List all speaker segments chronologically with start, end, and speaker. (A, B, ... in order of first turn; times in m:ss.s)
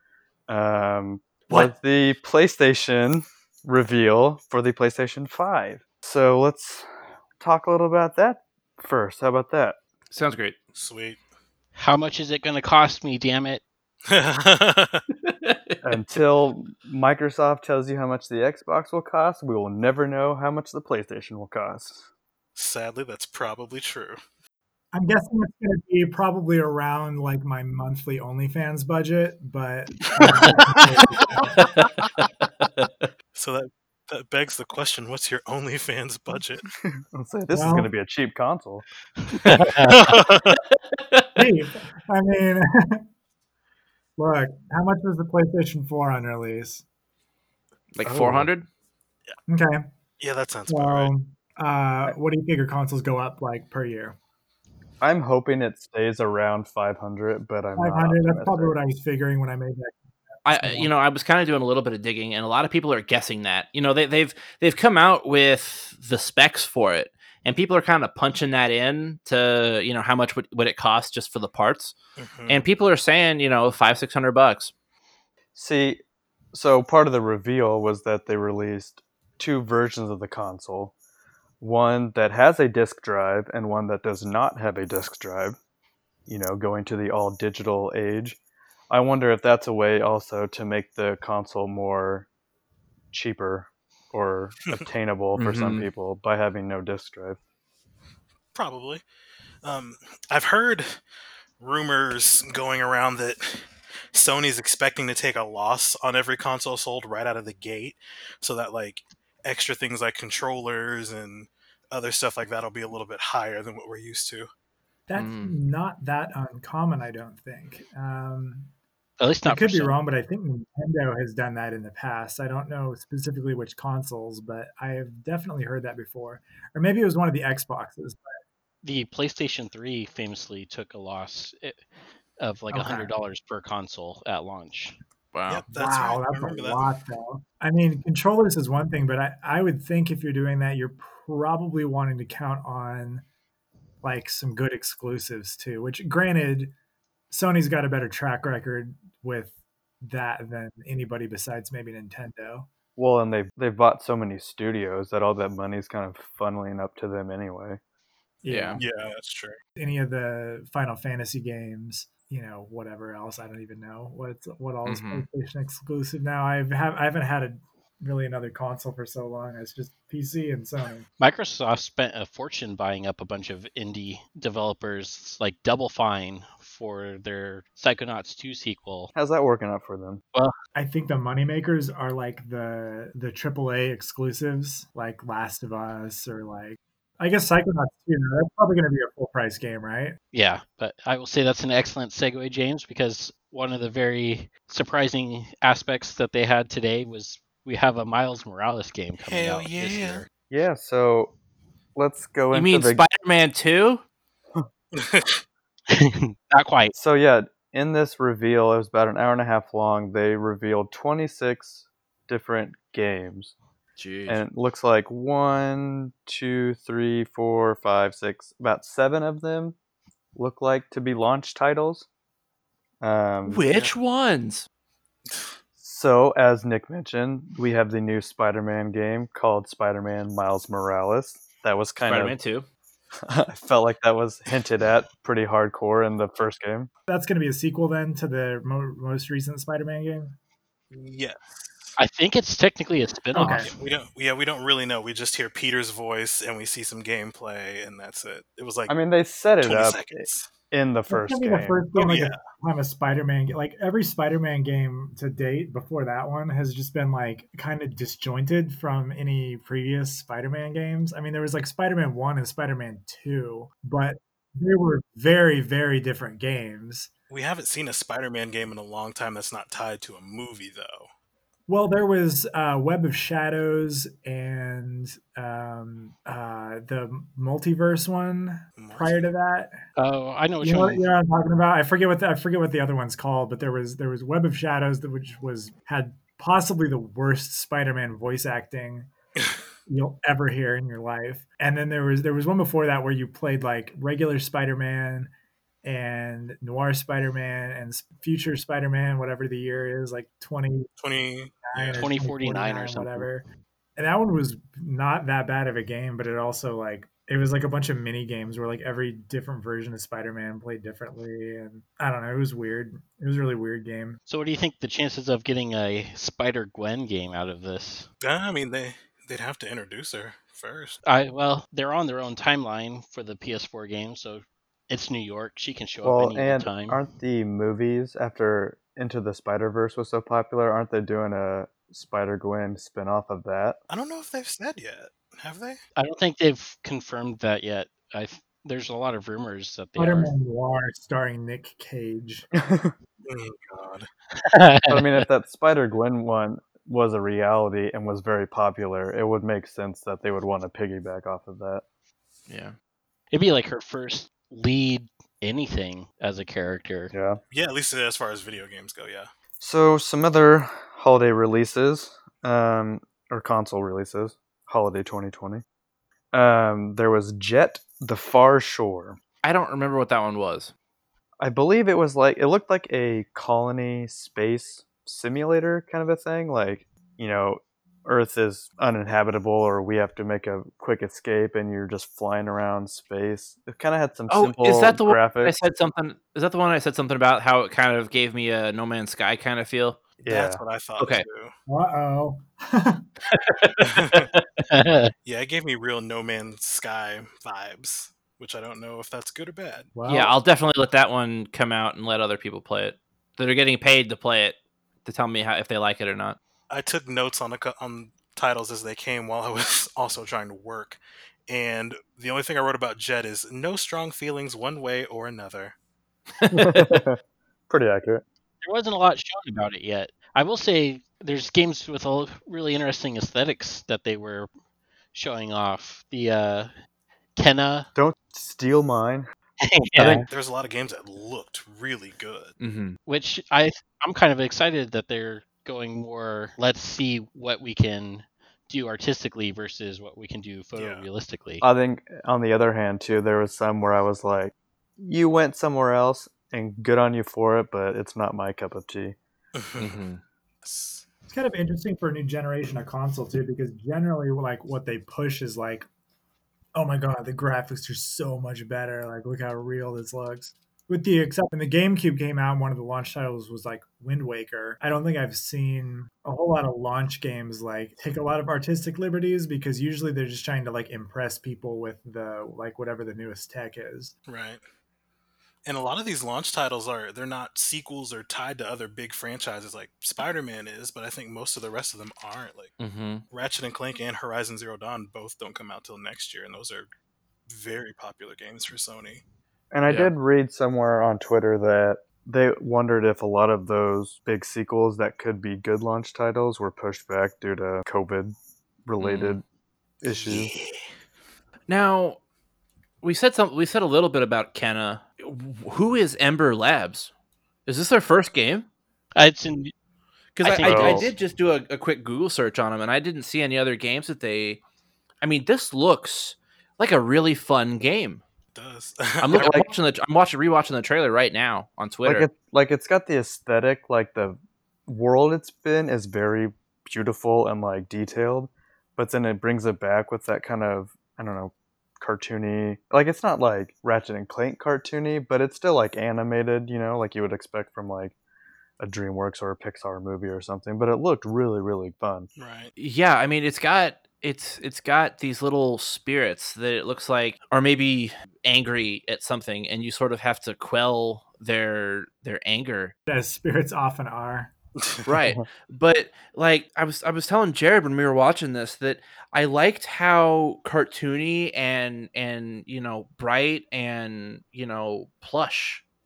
0:00.5-0:09.8 A
0:10.1-0:10.6 B
0:10.7-0:11.2 C
0:11.7-0:13.6 D
0:14.1-0:15.0 C
0:15.2-0:15.8 B
0:15.8-0:22.0 A
0:22.6-0:24.2 C
0:24.9-0:31.9 E
0:30.1-0:31.4 C
0:31.6-0:33.1 B
0:33.3-0:36.6 C
0:36.8-0:38.8 A
0:37.5-0:37.9 E
0:39.4-0:40.0 D
0:39.9-0:40.6 C
0:40.7-0:41.4 B
0:41.4-0:43.0 E
0:44.2-0:46.8 E
0:47.9-0:48.6 B
0:48.0-0:48.5 A
0:49.5-0:49.8 E
0:50.2-0:51.1 C
0:50.7-0:54.2 E
0:55.0-0:58.8 A
0:57.8-1:00.9 E
1:00.4-1:11.9 B
1:12.2-1:12.6 C
1:12.5-1:14.7 B
1:15.5-1:16.0 A
1:16.5-1:20.9 A
1:21.6-1:25.6 A
1:26.3-1:28.4 A
1:28.9-1:32.3 A
1:33.1-1:37.4 A
1:35.4-1:35.9 B
1:38.5-1:39.0 C
1:39.6-1:41.0 C
1:41.6-1:54.5 C
1:55.1-1:58.7 E
1:55.2-1:55.6 B
1:59.2-2:00.0 D
1:59.4-2:08.3 E
2:08.8-2:11.8 D
2:12.4-2:15.0 D
2:12.7-2:13.1 E
2:15.3-2:15.6 B
2:15.5-2:16.9 C
2:15.7-2:23.2 E
2:24.0-2:26.7 E
2:27.3-2:32.7 E
2:33.0-2:37.8 A
2:38.4-2:38.8 E
2:38.5-2:38.8 B
2:38.8-2:39.6 C
2:39.8-2:51.0 E
2:44.8-2:45.2 B
2:51.2-2:59.1 D
2:59.1-3:00.2 A
3:00.7-3:10.2 E
3:10.3-3:20.3 D
3:19.2-3:20.2 C
3:20.5-3:21.3 A
3:21.9-3:23.0 A
3:22.5-3:24.0 B
3:24.9-3:25.4 C
3:25.9-3:26.9 D
3:26.9-3:33.5 A
3:34.0-3:34.4 B
3:34.3-3:39.7 A
3:40.3-3:42.1 A
3:43.0-3:43.6 A
3:43.4-3:44.7 B
3:45.3-3:45.5 C
3:45.8-3:52.4 A
3:52.0-3:52.6 B
3:53.3-3:56.9 A
3:57.1-4:00.3 E
4:00.9-4:02.0 C
4:02.0-4:03.7 D
4:03.3-4:03.7 E
4:03.6-4:08.9 C
4:08.9-4:11.8 A
4:09.6-4:10.5 C
4:11.1-4:27.1 E
4:11.9-4:12.4 C
4:27.3-4:31.1 C
4:31.7-4:39.8 E
4:38.8-4:39.3 C
4:40.0-4:41.0 D
4:40.6-4:49.1 E
4:49.9-4:55.3 E
4:55.8-5:00.9 E
5:01.0-5:02.1 C
5:01.6-5:14.2 E
5:02.0-5:03.3 D
5:14.3-5:18.1 D
5:18.2-5:21.0 C
5:21.0-5:27.0 D
5:26.0-5:33.8 A
5:33.9-5:35.8 C
5:36.0-5:40.3 D
5:40.0-5:42.5 E
5:42.5-5:42.9 A
5:43.2-5:44.1 C
5:44.4-5:45.2 D
5:44.9-5:51.8 A
5:52.5-5:52.7 B
5:53.3-5:57.1 D
5:57.1-5:57.4 A
5:57.5-5:59.3 C
5:59.6-6:05.6 A
6:06.3-6:09.2 A
6:09.4-6:10.7 B
6:11.4-6:25.6 A
6:24.3-6:30.0 B
6:30.2-6:31.5 C
6:30.2-6:30.6 A
6:31.0-6:31.2 B
6:31.7-6:33.1 E
6:33.3-6:34.6 B
6:33.8-6:34.3 C
6:34.7-6:35.1 D
6:35.2-6:39.9 C
6:39.9-6:40.4 E
6:40.1-6:46.4 B
6:46.7-6:55.8 C
6:56.4-6:57.0 B
6:56.5-6:58.2 A
6:58.6-7:04.5 D
7:05.1-7:06.7 D
7:07.4-7:07.9 D
7:07.9-7:09.2 A
7:09.6-7:10.2 D
7:10.0-7:10.2 A
7:10.3-7:12.6 C
7:12.6-7:13.0 B
7:13.1-7:21.6 D
7:20.8-7:21.0 C
7:21.6-7:29.2 A
7:29.6-7:30.0 C
7:29.8-7:30.2 B
7:30.6-7:31.0 C
7:31.3-7:35.9 E
7:36.7-7:54.1 E
7:54.3-7:54.6 C
7:55.6-8:02.7 C
8:02.8-8:03.2 B
8:03.3-8:06.9 C
8:07.5-8:09.2 C
8:09.7-8:19.4 A
8:19.0-8:19.4 B
8:20.0-8:20.5 A
8:20.0-8:20.9 C
8:21.7-8:22.2 B
8:23.0-8:27.1 B
8:27.6-8:28.7 B
8:29.2-8:29.7 D
8:30.3-8:34.6 B
8:30.4-8:31.1 D
8:30.7-8:31.1 A
8:35.2-8:38.2 B
8:38.5-8:39.7 C
8:39.2-8:42.3 B
8:42.0-8:58.1 A
8:58.8-9:02.3 A
9:02.4-9:02.7 C
9:02.8-9:12.9 B
9:13.1-9:14.5 E
9:15.0-9:25.8 B